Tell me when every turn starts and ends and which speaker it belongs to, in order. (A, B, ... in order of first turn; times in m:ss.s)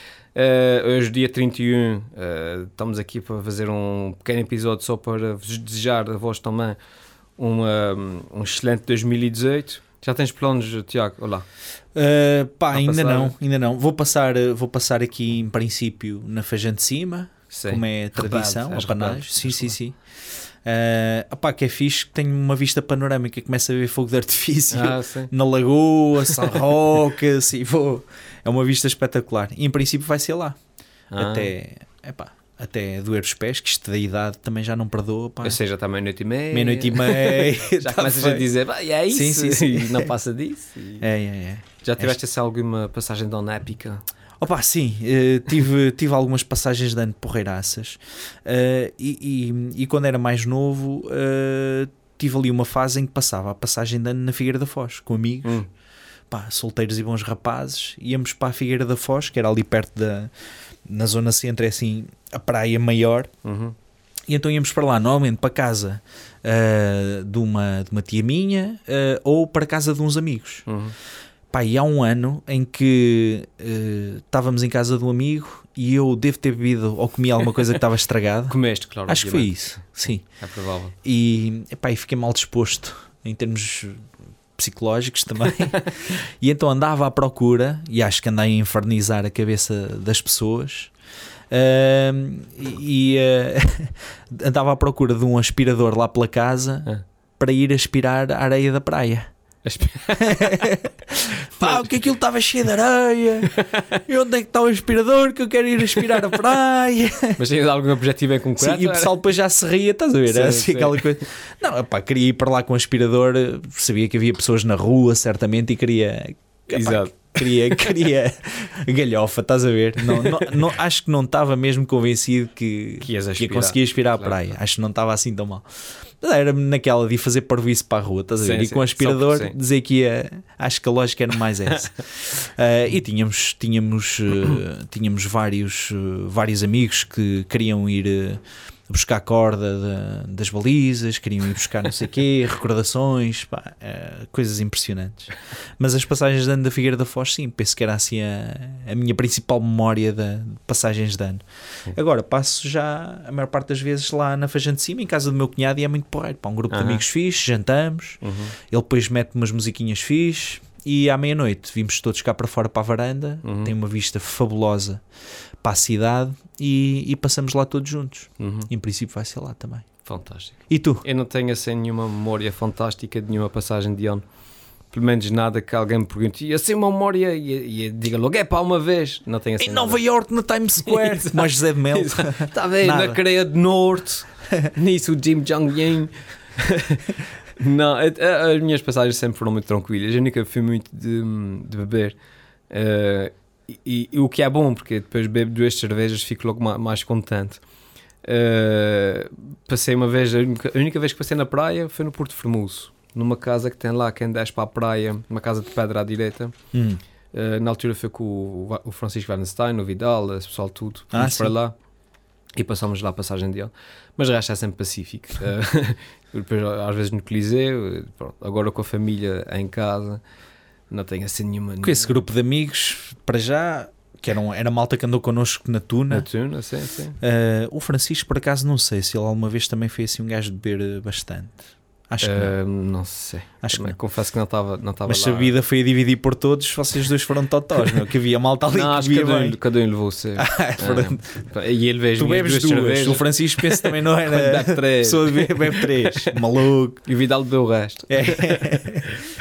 0:00.3-0:06.8 A
0:07.4-0:11.4 A
0:11.9-0:20.0 B
0:12.7-0:13.3 A
0:17.5-0:19.8 A
0:20.6-0:30.6 B
0:24.7-0:25.3 A
0:31.1-0:31.5 A
0:31.2-0:35.6 B
0:35.4-0:41.0 A
0:36.5-0:38.5 B
0:39.1-0:40.1 B
0:41.0-0:42.2 B
0:41.8-0:44.0 A
0:44.4-0:55.6 B
0:56.3-1:00.3 B
1:00.9-1:03.3 B
1:03.4-1:03.8 A
1:04.3-1:10.7 B
1:10.7-1:10.9 A
1:11.5-1:20.2 B
1:18.5-1:20.9 A
1:21.0-1:24.0 B
1:24.6-1:30.9 B
1:31.5-1:39.3 B
1:39.6-1:40.7 A
1:40.2-1:43.5 B
1:41.6-1:41.9 A
1:43.4-1:43.8 A
1:44.0-1:47.4 B
1:47.4-1:49.2 A
1:48.6-2:05.6 B
1:50.3-1:51.2 A
1:56.7-1:58.0 A
2:00.0-2:00.5 A
2:03.0-2:04.5 A
2:06.2-2:45.0 B
2:08.4-2:09.6 A
2:36.7-2:37.0 A
2:38.2-2:38.6 A
2:43.4-2:43.7 A
2:45.6-2:49.9 B
2:48.4-2:48.7 A
2:50.0-2:54.2 A
2:50.7-2:51.1 B
2:54.9-3:00.0 A
2:59.6-3:03.2 B
3:00.8-3:12.1 A
3:12.7-3:17.6 A
3:18.2-3:26.5 A
3:26.7-3:27.0 B
3:27.3-3:31.7 A
3:31.1-3:31.5 B
3:32.6-3:40.2 A
3:40.9-3:42.1 A
3:41.8-3:46.3 B
3:46.1-3:47.2 A
3:47.2-3:52.6 B
3:52.2-3:55.6 A
3:53.6-3:54.0 B
3:55.1-3:59.6 B
3:58.7-4:06.4 A
4:00.4-4:01.2 B
4:02.2-4:07.0 B
4:07.0-4:09.0 A
4:08.1-4:09.1 B